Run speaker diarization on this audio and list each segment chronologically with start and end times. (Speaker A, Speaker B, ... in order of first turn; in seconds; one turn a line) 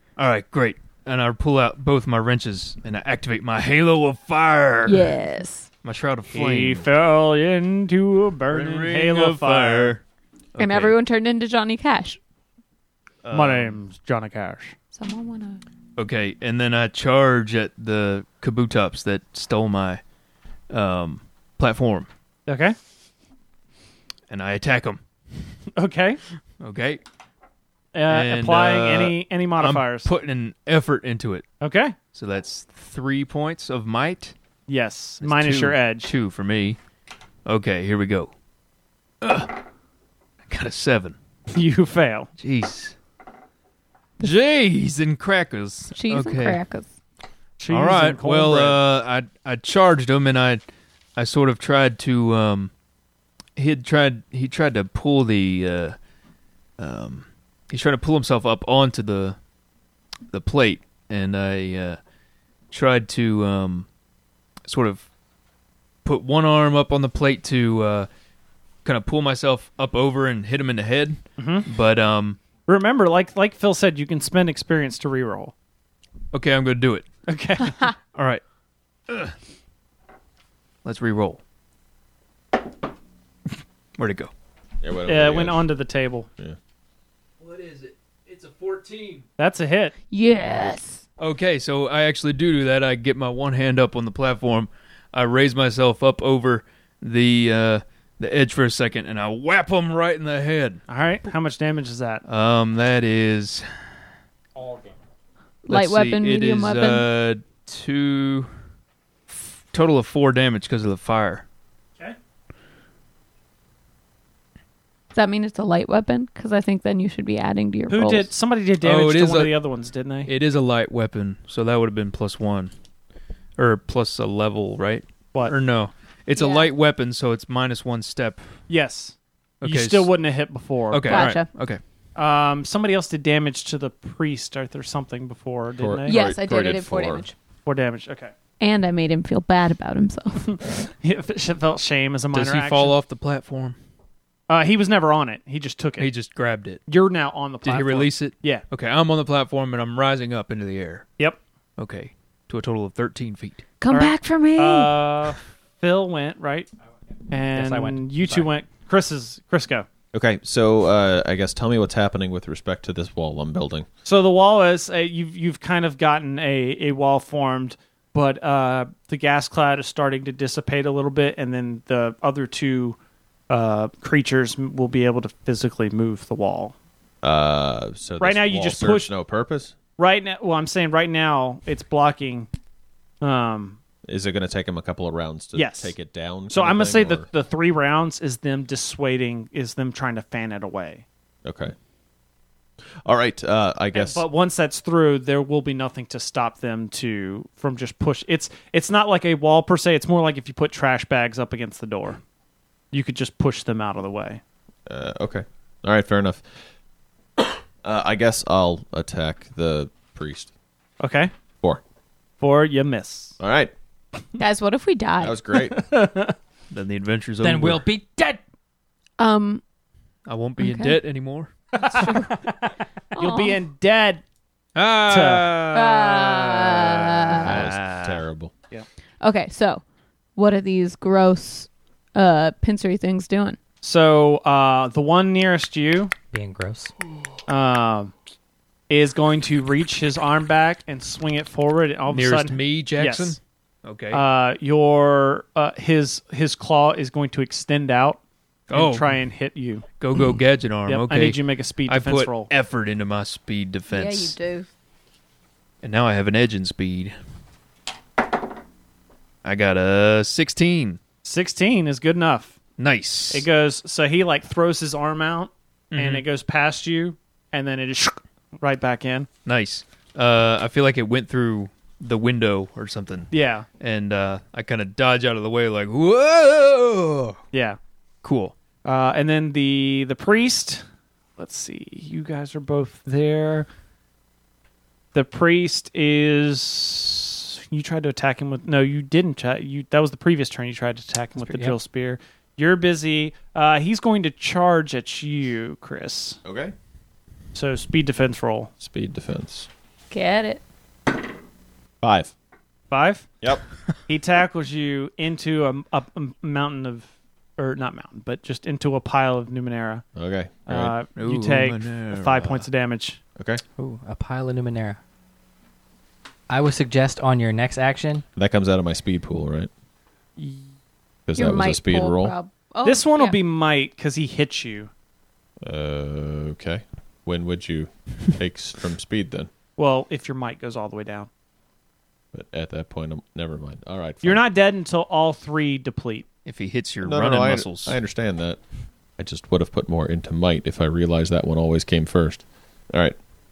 Speaker A: 0.2-5.1
Speaker B: 4.9-5.7
Speaker A: 5.8-6.9
Speaker C: 6.3-9.9
Speaker A: 8.5-10.0
Speaker A: 10.6-10.9
Speaker B: 10.6-12.2
Speaker A: 13.2-13.8
Speaker C: 13.3-14.8
Speaker B: 14.9-15.6
Speaker A: 16.0-20.0
Speaker A: 20.7-22.1
Speaker C: 22.5-22.8
Speaker A: 24.3-25.0
Speaker C: 25.8-26.2
Speaker A: 26.6-27.0
Speaker C: 27.9-30.1
Speaker A: 28.1-31.5
Speaker C: 31.6-31.9
Speaker A: 32.1-34.3
Speaker C: 34.7-36.1
Speaker A: 35.2-36.8
Speaker A: 37.5-38.3
Speaker A: 39.2-39.6
Speaker A: 40.5-41.1
Speaker C: 41.5-42.3
Speaker A: 42.4-43.0
Speaker A: 44.2-46.6
Speaker B: 45.9-46.9
Speaker C: 47.6-48.8
Speaker A: 47.7-50.6
Speaker A: 51.2-52.7
Speaker A: 53.6-56.0
Speaker A: 56.8-59.4
Speaker A: 60.3-62.0
Speaker A: 62.7-63.9
Speaker A: 64.7-65.1
Speaker A: 66.0-68.1
Speaker A: 68.8-72.4
Speaker C: 71.4-71.7
Speaker C: 72.6-75.5
Speaker A: 76.3-77.1
Speaker C: 77.3-77.8
Speaker A: 78.1-78.4
Speaker A: 79.1-79.3
Speaker A: 80.8-81.4
Speaker A: 84.0-84.3
Speaker D: 84.8-85.7
Speaker C: 85.1-86.3
Speaker A: 87.4-89.2
Speaker C: 89.4-89.9
Speaker B: 90.1-91.0
Speaker A: 91.2-100.8
Speaker C: 100.9-102.2
Speaker A: 102.3-103.6
Speaker C: 104.6-104.9
Speaker B: 105.7-107.1
Speaker A: 105.7-108.5
Speaker A: 109.3-111.4
Speaker B: 115.1-118.3
Speaker C: 117.9-120.3
Speaker A: 118.8-119.6
Speaker A: 120.2-122.7
Speaker A: 123.6-128.6
Speaker B: 126.4-126.7
Speaker C: 128.7-131.4
Speaker A: 129.6-130.1
Speaker A: 130.9-131.8
Speaker B: 131.1-131.5
Speaker C: 132.2-136.2
Speaker D: 135.8-137.3
Speaker B: 136.1-137.3
Speaker C: 137.6-138.3
Speaker B: 138.6-140.7
Speaker C: 141.0-142.9
Speaker A: 142.3-143.8
Speaker C: 144.5-146.1
Speaker A: 146.0-146.8
Speaker C: 146.9-148.6
Speaker A: 147.6-151.1
Speaker A: 151.8-153.6
Speaker B: 153.8-155.0
Speaker C: 153.9-156.7
Speaker C: 157.3-159.9
Speaker E: 157.5-158.5
Speaker D: 160.1-163.9
Speaker C: 164.1-173.0
Speaker C: 173.5-176.8
Speaker D: 177.2-179.8
Speaker C: 178.2-179.1
Speaker C: 180.0-182.5
Speaker C: 183.2-183.8
Speaker D: 184.1-187.3
Speaker C: 185.5-185.9
Speaker C: 186.5-191.0
Speaker D: 191.4-191.7
Speaker D: 193.0-194.2
Speaker C: 193.9-202.2
Speaker C: 202.9-204.4
Speaker D: 204.9-206.4
Speaker D: 207.8-210.5
Speaker C: 211.0-211.3
Speaker C: 212.4-213.4
Speaker D: 213.4-213.7
Speaker B: 214.4-215.4
Speaker D: 215.2-215.8
Speaker C: 215.6-216.3
Speaker A: 216.7-217.8
Speaker E: 217.4-218.4
Speaker B: 219.2-219.6
Speaker A: 220.3-222.1
Speaker B: 220.6-221.0
Speaker C: 221.8-222.2
Speaker B: 221.9-222.3
Speaker B: 223.2-223.6
Speaker C: 223.2-224.2
Speaker A: 224.8-228.2
Speaker C: 225.1-225.6
Speaker B: 225.7-227.5
Speaker D: 227.4-228.5
Speaker B: 229.2-229.8
Speaker B: 230.4-233.6
Speaker C: 233.8-236.1
Speaker E: 236.3-236.9
Speaker C: 237.5-238.1
Speaker C: 238.9-243.4
Speaker A: 242.1-244.2
Speaker C: 244.1-248.2
Speaker A: 248.7-249.1
Speaker C: 248.7-249.8
Speaker A: 250.0-254.3
Speaker C: 250.9-252.5
Speaker B: 253.9-254.7
Speaker A: 255.8-257.1
Speaker A: 259.4-261.0
Speaker C: 261.2-262.6
Speaker A: 262.8-263.5
Speaker C: 263.3-269.3
Speaker A: 265.9-266.2
Speaker A: 269.5-277.4
Speaker C: 273.3-273.6
Speaker C: 277.5-277.8
Speaker A: 278.2-278.6
Speaker C: 278.8-280.9
Speaker C: 281.4-283.7
Speaker C: 285.1-296.4
Speaker E: 291.4-291.8
Speaker D: 296.4-296.7
Speaker C: 297.5-298.7
Speaker D: 298.8-299.7
Speaker B: 300.1-300.6
Speaker D: 302.0-302.3
Speaker C: 302.9-303.4
Speaker C: 304.1-310.1
Speaker D: 310.1-310.9
Speaker C: 310.7-313.2
Speaker A: 311.1-312.5
Speaker D: 313.4-313.6
Speaker E: 313.8-315.0
Speaker E: 316.5-318.2
Speaker D: 318.4-319.7
Speaker C: 320.4-320.7
Speaker D: 321.3-322.4
Speaker B: 321.4-323.4
Speaker C: 322.9-324.9
Speaker D: 325.6-329.5
Speaker C: 329.8-331.3
Speaker D: 332.3-334.4
Speaker C: 334.2-336.2
Speaker A: 336.4-338.0
Speaker D: 337.0-338.6
Speaker D: 339.2-343.1